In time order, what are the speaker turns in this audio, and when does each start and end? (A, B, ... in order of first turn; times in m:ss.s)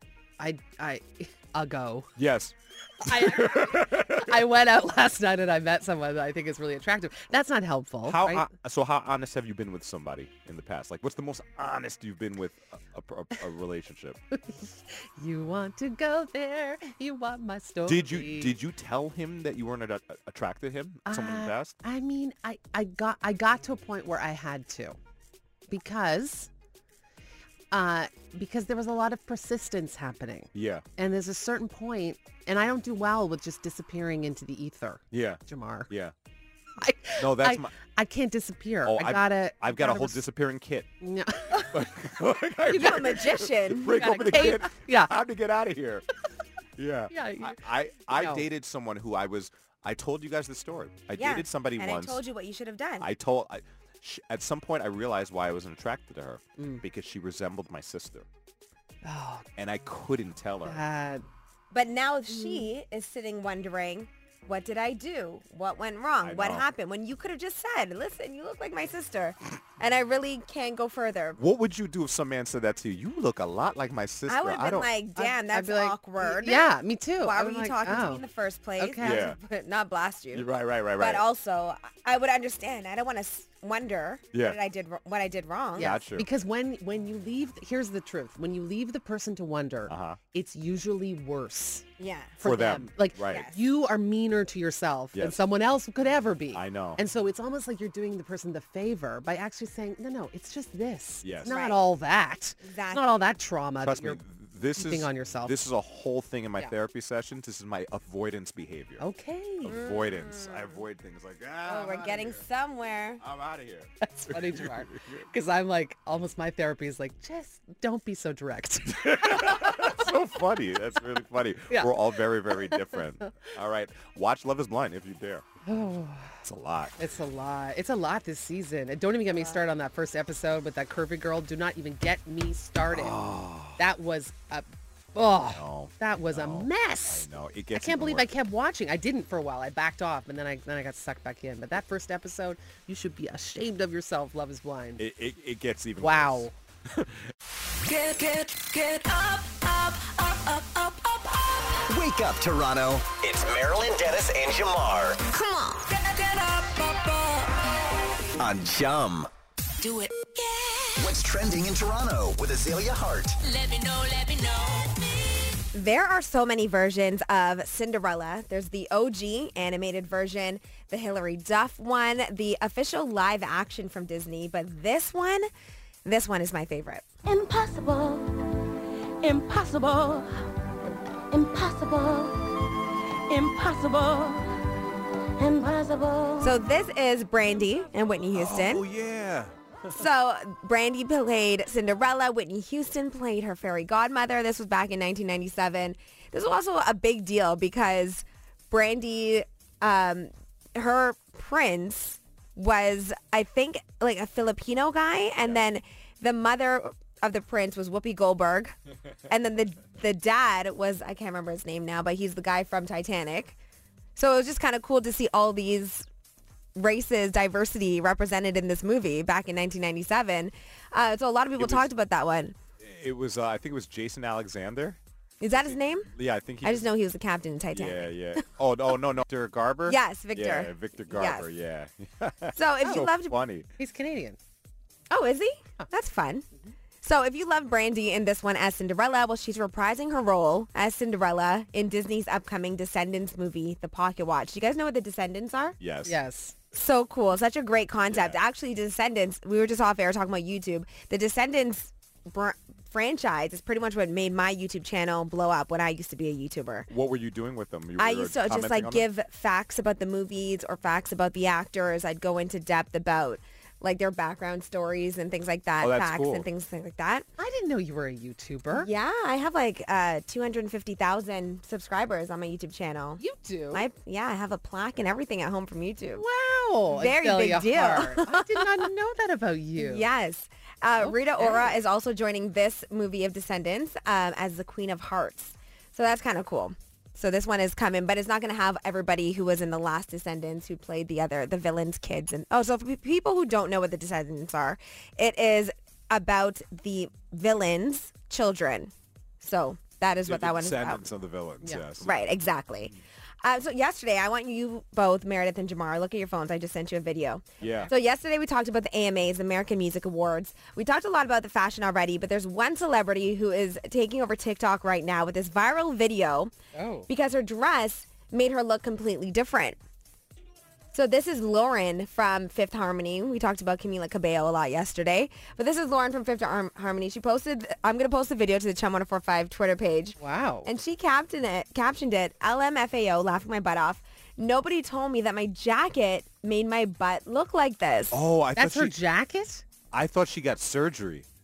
0:00.4-0:02.1 A
0:02.2-0:04.5 B
0:03.0-0:08.5 A
0:08.0-0:14.2 B
0:14.5-0:18.5 A
0:17.8-0:21.7 B
0:21.0-0:25.0 A
0:25.7-0:26.5 A
0:27.7-0:35.9 A
0:30.5-0:30.8 B
0:35.1-0:36.1 B
0:36.8-0:40.2 A
0:37.2-0:37.7 B
0:38.8-0:40.9 B
0:41.0-0:41.8 A
0:41.7-0:46.0 B
0:42.7-0:44.4 C
0:43.8-0:45.1 A
0:46.8-0:52.2 B
0:47.1-0:48.4 A
0:51.1-0:53.1 C
0:53.0-0:58.3 B
0:56.6-0:56.8 A
0:59.0-0:59.4 A
0:59.6-1:00.8 B
1:00.6-1:01.2 A
1:01.7-1:11.4 C
1:02.3-1:02.7 A
1:06.2-1:06.7 B
1:11.4-1:14.9 B
1:14.3-1:26.0 C
1:15.2-1:18.2 A
1:18.8-1:19.3 A
1:19.0-1:19.4 B
1:20.3-1:21.2 B
1:24.3-1:24.6 B
1:25.8-1:31.8 A
1:25.8-1:26.3 B
1:29.9-1:30.2 B
1:32.0-1:32.4 C
1:32.4-1:44.2 A
1:32.4-1:33.5 B
1:33.2-1:33.6 C
1:35.1-1:35.4 B
1:36.5-1:37.0 B
1:41.2-1:41.6 B
1:41.4-1:41.8 C
1:42.6-1:43.0 C
1:43.8-1:49.0 B
1:44.8-1:45.6 A
1:49.0-1:49.8 A
1:49.6-1:52.4 B
1:49.6-1:50.8 C
1:51.6-1:53.2 C
1:53.2-1:55.2 B
1:54.0-2:00.0 A
1:58.9-2:05.4 B
2:01.7-2:01.9 A
2:02.5-2:03.4 A
2:05.6-2:06.4 A
2:06.4-2:07.0 B
2:07.0-2:13.2 A
2:12.9-2:13.8 B
2:13.8-2:25.0 A
2:15.5-2:18.3 B
2:25.0-2:27.3 B
2:26.0-2:26.5 A
2:27.8-2:31.8 D
2:31.9-2:35.2 E
2:35.4-2:35.8 C
2:35.7-2:37.8 D
2:38.4-2:39.3 E
2:39.8-2:41.1 D
2:41.0-2:43.4 E
2:43.4-2:45.5 D
2:45.7-2:55.5 C
2:56.0-2:57.0 C
2:57.2-2:58.7 F
2:59.2-3:00.5 F
3:01.3-3:02.7 F
3:03.3-3:04.8 F
3:05.4-3:06.6 F
3:06.4-3:08.8 C
3:08.3-3:09.9 B
3:09.9-3:28.7 C
3:29.3-3:33.6 C
3:34.2-3:36.0 C
3:36.8-3:42.5 C
3:41.6-3:41.9 B
3:42.8-3:45.0 B
3:45.4-3:46.1 C
3:45.5-3:46.9 B
3:46.6-3:48.4 C
3:47.7-3:53.7 B
3:49.9-3:51.4 C
3:52.5-3:53.4 C
3:53.8-3:54.4 A
3:55.1-3:56.4 C
3:57.0-4:05.8 C
4:05.8-4:06.1 B
4:06.0-4:06.5 A
4:06.7-4:16.9 C
4:08.1-4:08.4 B
4:16.9-4:19.0 B
4:18.0-4:27.2 C
4:25.8-4:26.4 B
4:27.4-4:28.9 A
4:28.7-4:36.2 C
4:33.2-4:33.8 A
4:36.1-4:40.1 A
4:36.9-4:38.9 C
4:39.8-5:01.0 C
4:41.0-4:41.8 A
5:00.2-5:02.2 B
5:01.6-5:01.9 A
5:02.0-5:16.5 C
5:07.6-5:07.9 B
5:07.6-5:07.9 A
5:16.7-5:17.1 A
5:17.1-5:19.8 C
5:20.9-5:38.2 C
5:30.2-5:30.7 A
5:38.1-5:39.0 B
5:38.6-5:39.6 A
5:39.9-5:41.2 B